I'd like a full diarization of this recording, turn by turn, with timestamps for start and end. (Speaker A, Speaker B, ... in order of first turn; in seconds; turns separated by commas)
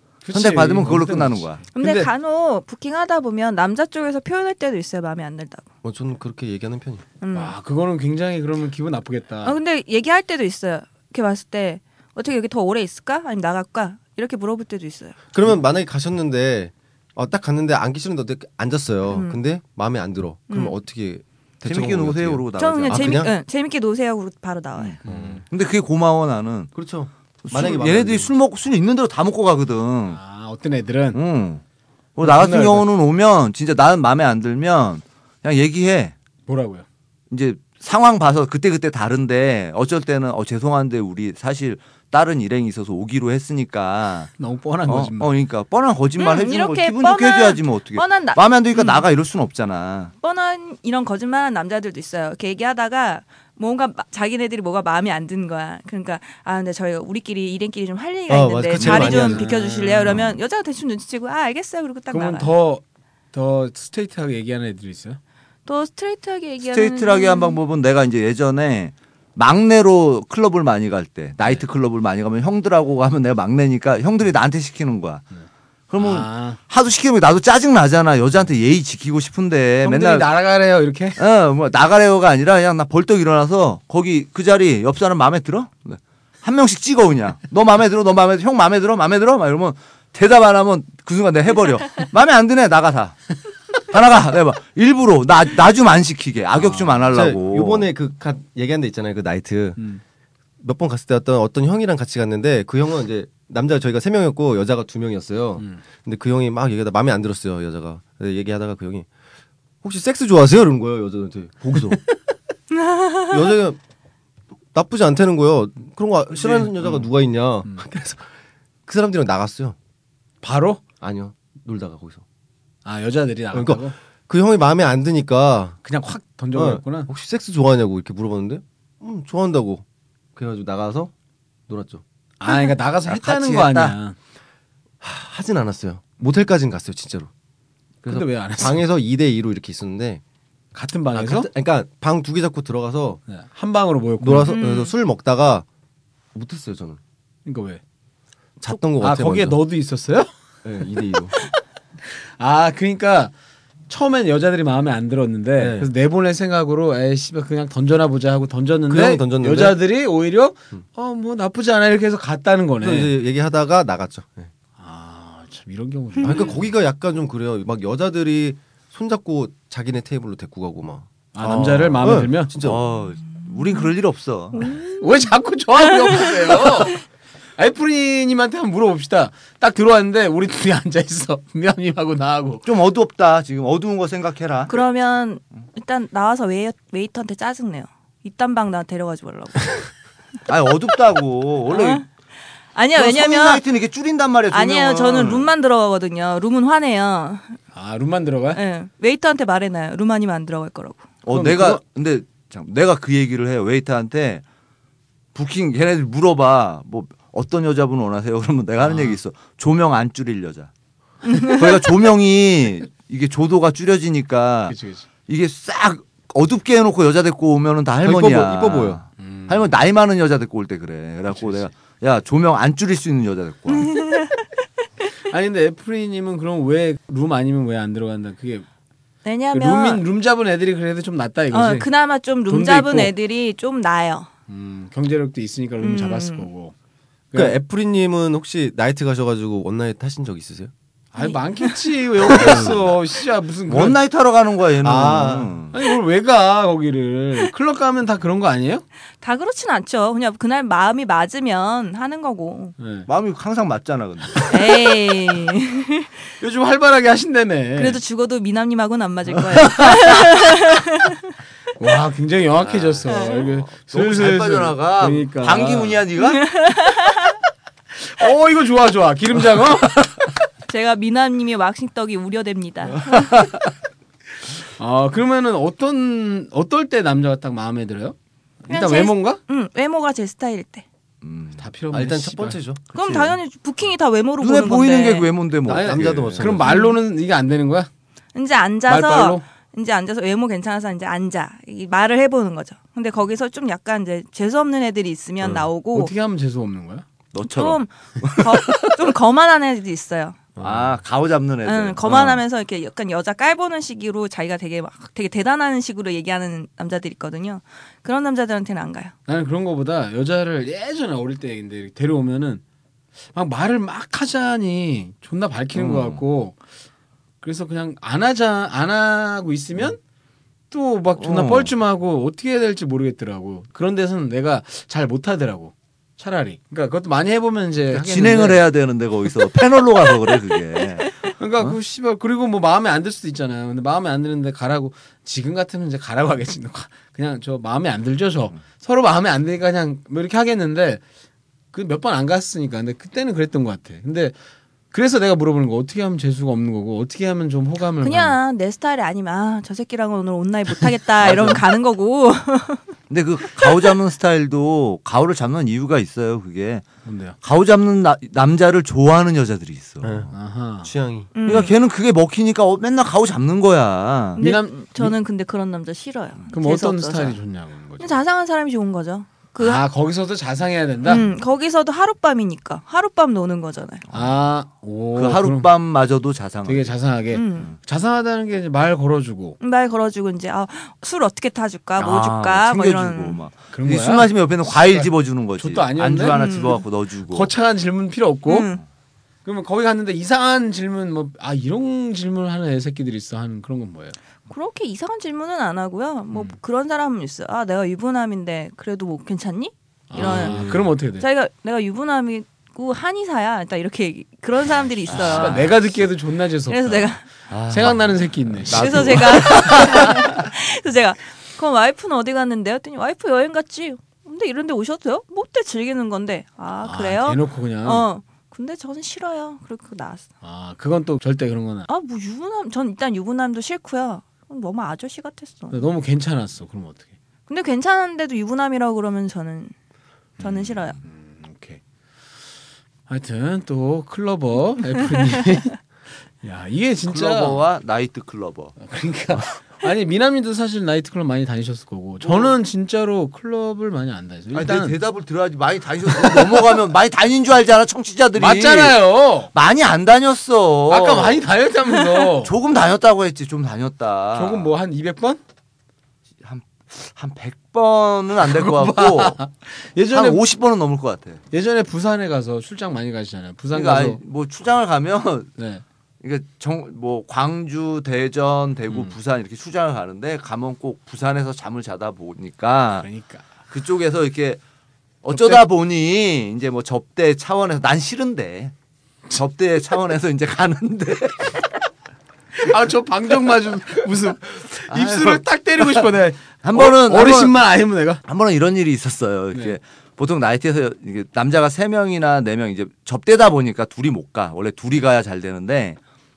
Speaker A: 0.2-1.6, Speaker B: 0.3-1.6, Speaker C: 1.7-5.6, Speaker D: 5.8-7.0, Speaker C: 7.2-7.5, Speaker A: 7.3-9.6, Speaker C: 9.4-15.2, Speaker D: 15.3-23.3, Speaker C: 19.1-19.4, Speaker C: 20.5-20.8, Speaker B: 21.6-23.3, Speaker C: 22.6-25.0, Speaker B: 24.8-26.7, Speaker A: 25.0-25.4, Speaker D: 25.1-25.4, Speaker D: 26.7-28.3, Speaker B: 27.4-30.2, Speaker A: 30.1-31.2, Speaker B: 31.1-31.6, Speaker B: 32.1-36.1, Speaker A: 32.2-32.9, Speaker A: 36.5-36.8, Speaker B: 37.3-44.3, Speaker A: 44.4-45.3, Speaker B: 44.9-50.1, Speaker C: 46.2-49.1, Speaker C: 50.2-62.5, Speaker D: 58.3-59.5, Speaker B: 58.8-59.1, Speaker A: 59.0-60.2, Speaker A: 62.1-65.2, Speaker C: 65.7-67.6, Speaker B: 66.7-75.2, Speaker B: 75.9-80.3, Speaker A: 76.0-76.6, Speaker A: 79.8-81.2, Speaker B: 81.2-97.9, Speaker A: 96.6-97.1, Speaker D: 97.1-99.8, Speaker D: 100.6-109.1, Speaker D: 109.8-112.0, Speaker C: 112.9-113.2, Speaker D: 113.2-113.8, Speaker D: 114.7-118.3, Speaker A: 116.3-117.0, Speaker D: 118.9-119.8, Speaker A: 120.4-120.8, Speaker D: 121.0-122.2, Speaker A: 122.8-123.9, Speaker D: 123.5-125.8, Speaker A: 125.8-127.1, Speaker D: 126.5-129.8, Speaker D: 130.3-131.1, Speaker D: 131.7-132.0, Speaker A: 132.4-134.2, Speaker B: 133.1-133.9, Speaker D: 135.0-137.3, Speaker D: 138.0-140.2, Speaker A: 138.1-138.8, Speaker A: 140.7-141.5, Speaker D: 141.1-143.2, Speaker A: 143.3-144.6, Speaker D: 144.2-145.7, Speaker C: 144.5-144.9, Speaker D: 146.3-147.0, Speaker A: 147.4-147.8, Speaker D: 148.6-149.6, Speaker A: 149.0-150.3, Speaker D: 150.6-151.3, Speaker A: 152.0-153.3, Speaker A: 153.9-163.1, Speaker D: 155.6-155.9, Speaker D: 158.9-159.8, Speaker D: 162.8-164.5, Speaker A: 164.8-166.5, Speaker D: 166.2-172.9, Speaker A: 171.3-172.5, Speaker B: 172.6-174.7, Speaker C: 174.6-175.0, Speaker A: 174.8-177.0, Speaker A: 177.6-182.7, Speaker B: 182.7-184.8, Speaker C: 184.7-189.9, Speaker B: 190.5-192.0, Speaker C: 191.7-192.1, Speaker C: 192.7-193.6, Speaker B: 192.9-195.5, Speaker C: 194.5-197.6, Speaker A: 197.7-198.6, Speaker C: 198.5-201.1, Speaker B: 201.2-204.4, Speaker A: 201.3-201.8, Speaker B: 205.3-210.7, Speaker A: 208.8-209.2, Speaker C: 211.2-211.8, Speaker B: 211.3-223.9, Speaker A: 214.7-215.1, Speaker D: 218.0-219.0, Speaker A: 219.2-219.7, Speaker A: 221.3-221.7, Speaker C: 223.7-224.4, Speaker A: 225.3-228.7, Speaker C: 229.2-230.0, Speaker A: 229.5-231.9, Speaker C: 231.5-234.3, Speaker A: 232.5-233.1, Speaker A: 234.5-236.7, Speaker C: 235.8-236.5, Speaker A: 237.3-237.6, Speaker D: 237.3-240.7, Speaker A: 241.1-244.0, Speaker C: 241.2-241.8, Speaker D: 242.3-242.8, Speaker B: 242.3-242.8, Speaker B: 243.7-245.7, Speaker D: 244.8-245.5, Speaker A: 245.7-248.8, Speaker C: 249.2-252.7, Speaker A: 252.8-253.1, Speaker B: 253.1-254.5, Speaker C: 254.4-256.2, Speaker A: 256.4-258.0, Speaker C: 257.8-261.3, Speaker A: 261.8-266.0, Speaker B: 262.6-266.4, Speaker C: 263.1-263.5, Speaker C: 266.2-267.3, Speaker A: 267.9-270.3, Speaker C: 270.7-273.3, Speaker A: 273.0-273.7, Speaker A: 274.4-279.4, Speaker C: 278.7-280.8, Speaker B: 281.2-281.6, Speaker A: 281.6-282.6, Speaker D: 281.9-282.8, Speaker B: 282.9-283.4, Speaker C: 282.9-285.3, Speaker B: 284.4-286.6, Speaker D: 285.7-286.6, Speaker A: 285.7-287.9, Speaker C: 286.6-287.0, Speaker C: 288.3-296.1, Speaker A: 288.9-289.4, Speaker A: 295.9-297.1, Speaker B: 297.3-298.9, Speaker C: 297.4-300.4, Speaker D: 300.6-300.9, Speaker B: 300.6-302.4, Speaker C: 301.6-309.1, Speaker A: 309.3-312.6, Speaker A: 313.3-316.6, Speaker B: 315.7-316.2, Speaker A: 317.4-320.0, Speaker A: 320.7-328.6, Speaker B: 321.2-321.7, Speaker B: 327.9-331.8, Speaker A: 331.4-341.0, Speaker A: 341.7-344.3, Speaker A: 344.9-348.4, Speaker C: 348.0-352.8, Speaker A: 351.2-351.6, Speaker B: 353.1-356.9, Speaker C: 353.6-353.9, Speaker A: 357.0-357.4, Speaker B: 357.4-360.3, Speaker D: 360.0-360.3, Speaker A: 360.3-360.9, Speaker D: 360.8-361.3, Speaker C: 361.4-361.7, Speaker B: 361.4-364.4, Speaker C: 364.3-367.4, Speaker A: 364.4-365.1, Speaker A: 366.5-368.2, Speaker C: 368.0-369.8, Speaker A: 369.6-371.3, Speaker C: 371.0-374.0, Speaker B: 374.1-374.4, Speaker A: 374.1-375.7, Speaker B: 375.1-376.9, Speaker A: 376.6-379.6, Speaker C: 377.3-377.7, Speaker C: 379.6-383.4, Speaker B: 382.0-387.5, Speaker A: 383.7-386.4, Speaker C: 386.3-386.8, Speaker A: 387.3-388.7, Speaker C: 388.5-388.8, Speaker A: 389.4-394.1, Speaker C: 394.5-405.7, Speaker A: 400.1-401.2, Speaker B: 400.1-400.9, Speaker B: 405.1-405.8, Speaker A: 405.1-407.2, Speaker C: 406.7-407.2, Speaker B: 407.5-410.4, Speaker A: 407.7-410.4, Speaker C: 408.7-420.3, Speaker A: 416.8-418.1, Speaker A: 420.4-421.9, Speaker C: 421.9-425.8, Speaker A: 425.7-427.1, Speaker C: 427.5-429.7, Speaker C: 430.4-431.0, Speaker A: 430.4-431.8, Speaker A: 433.1-435.8, Speaker A: 436.4-437.6, Speaker B: 437.1-438.8, Speaker A: 438.8-445.0, Speaker B: 442.2-442.5, Speaker B: 444.5-449.0, Speaker A: 446.1-446.7, Speaker A: 448.3-449.5, Speaker B: 449.5-451.4, Speaker A: 450.9-452.5, Speaker B: 452.4-454.7, Speaker A: 454.3-455.4, Speaker B: 456.4-459.4, Speaker A: 458.4-460.4, Speaker B: 460.1-461.4, Speaker A: 461.5-464.2, Speaker B: 463.7-465.5, Speaker A: 465.6-465.8, Speaker B: 466.2-473.1, Speaker A: 468.9-469.1, Speaker A: 473.0-473.4, Speaker B: 473.7-474.6, Speaker B: 475.2-478.7, Speaker A: 475.3-475.6, Speaker B: 479.3-481.6, Speaker A: 482.6-488.2, Speaker B: 484.9-486.0, Speaker B: 486.6-487.6, Speaker B: 488.2-496.0